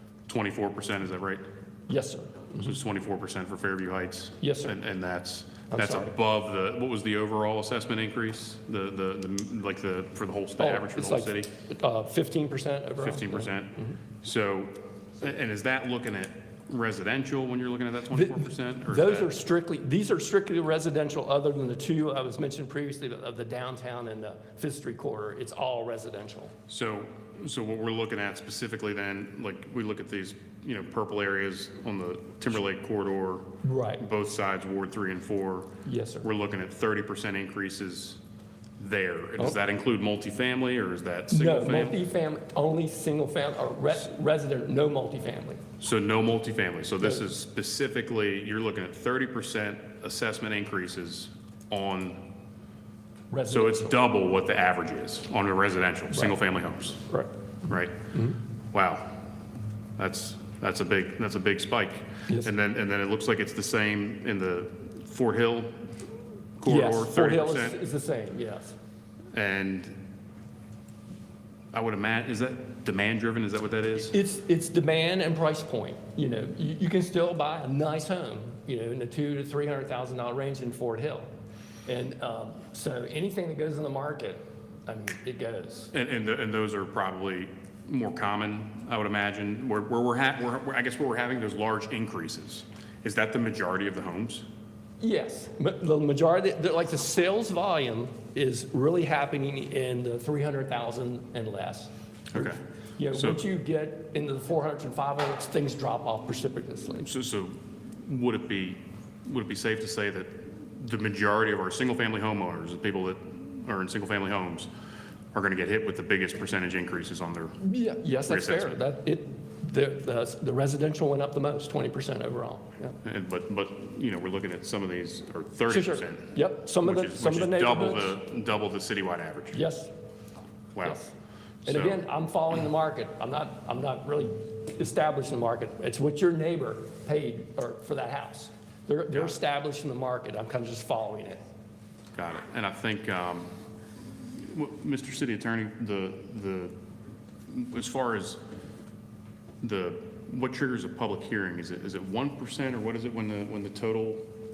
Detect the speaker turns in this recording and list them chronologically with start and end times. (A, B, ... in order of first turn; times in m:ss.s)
0:00.3-0:01.5 A
0:01.9-0:02.7 B
0:02.6-0:11.5 A
0:04.4-0:04.8 B
0:05.7-0:06.1 B
0:10.6-0:14.0 B
0:13.0-0:19.3 A
0:18.1-0:26.5 B
0:26.7-0:35.7 A
0:33.6-0:34.0 B
0:35.8-0:36.3 B
0:36.2-0:38.2 A
0:38.8-0:42.0 A
0:41.3-0:45.6 B
0:45.8-0:52.2 A
0:53.3-0:54.0 B
0:53.5-0:57.0 A
0:57.7-0:58.1 A
0:58.1-0:58.4 B
0:58.7-0:59.2 A
1:00.0-1:06.0 A
1:06.6-1:07.8 A
1:06.7-1:08.8 B
1:09.3-1:10.0 A
1:11.7-1:14.1 A
1:14.1-1:21.3 B
1:21.9-1:25.9 B
1:25.9-1:34.5 A
1:35.0-1:47.1 B
1:42.3-1:42.6 A
1:43.1-1:43.4 A
1:47.0-1:54.7 A
1:55.3-1:57.6 A
1:57.6-2:03.0 B
1:58.3-1:58.8 A
2:03.0-2:09.6 A
2:05.7-2:08.1 B
2:09.5-2:09.9 B
2:10.8-2:11.0 A
2:10.8-2:11.1 B
2:11.6-2:12.0 A
2:11.7-2:21.4 B
2:22.2-2:23.5 A
2:24.3-2:26.8 A
2:27.5-2:28.4 A
2:29.6-2:34.3 A